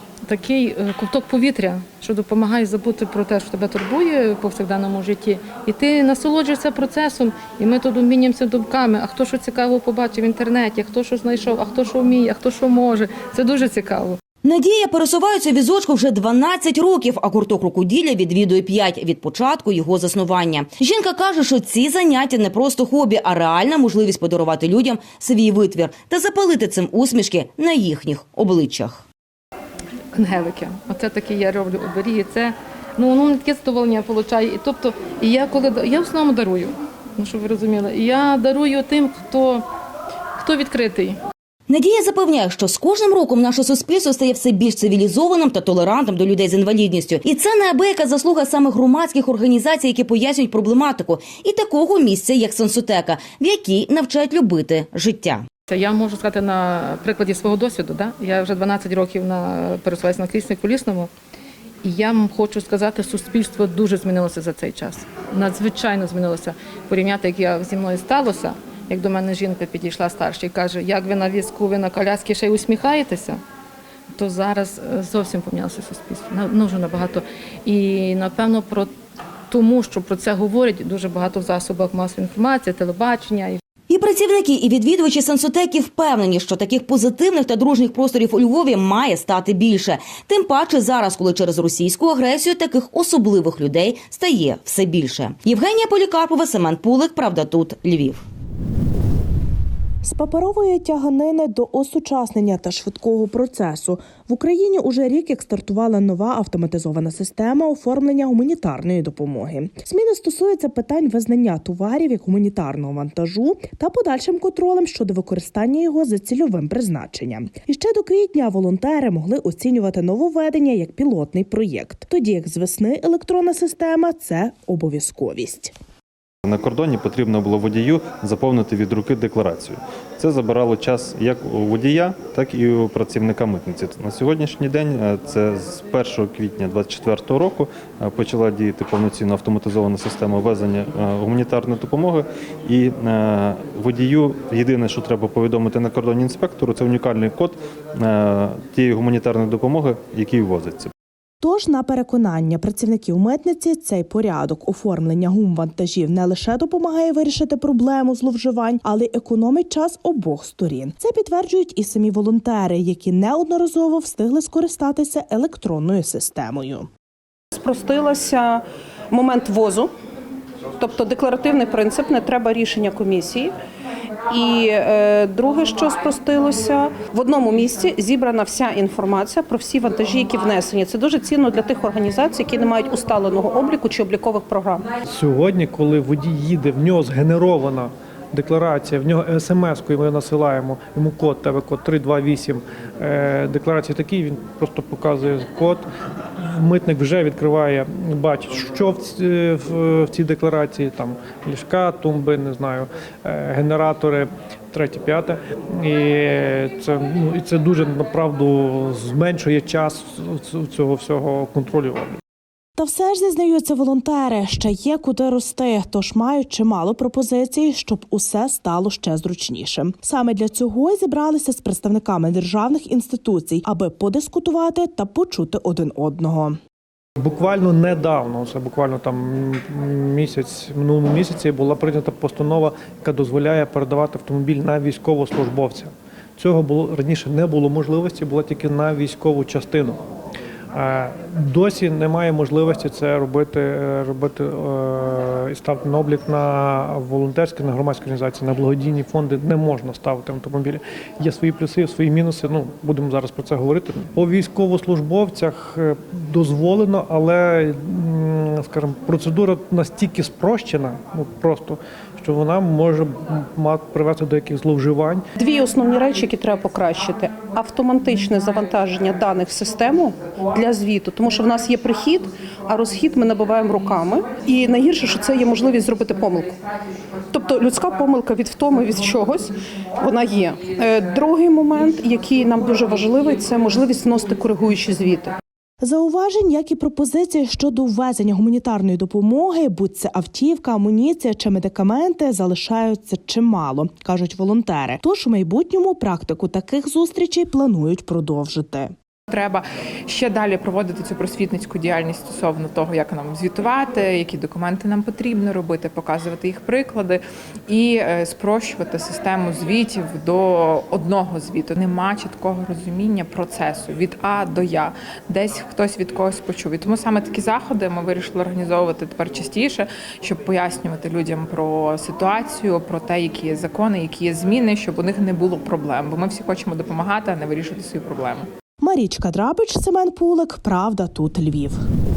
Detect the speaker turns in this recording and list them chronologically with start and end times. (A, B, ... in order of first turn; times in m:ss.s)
0:00.3-0:14.2 A
0:14.4-0:29.0 B
0:30.1-0:39.6 A
0:40.4-0:41.2 A
0:41.7-0:55.4 B
0:55.7-1:01.1 A
1:01.8-1:13.4 A
1:14.1-1:18.9 A
1:19.5-1:23.6 A
1:23.9-1:38.2 B
1:40.0-2:05.7 C
2:06.4-2:30.9 D
2:31.4-2:46.9 C
2:47.5-2:49.9 E
2:50.8-2:53.5 E
2:54.3-3:04.8 E
3:05.1-3:15.8 F
3:16.4-3:32.2 F
3:32.8-3:46.6 C
3:47.2-4:00.0 F
4:00.7-4:25.3 F
4:25.4-4:36.5 E
4:37.3-4:45.4 E
4:45.8-4:58.9 C
4:59.3-5:28.5 G
5:28.8-5:31.8 C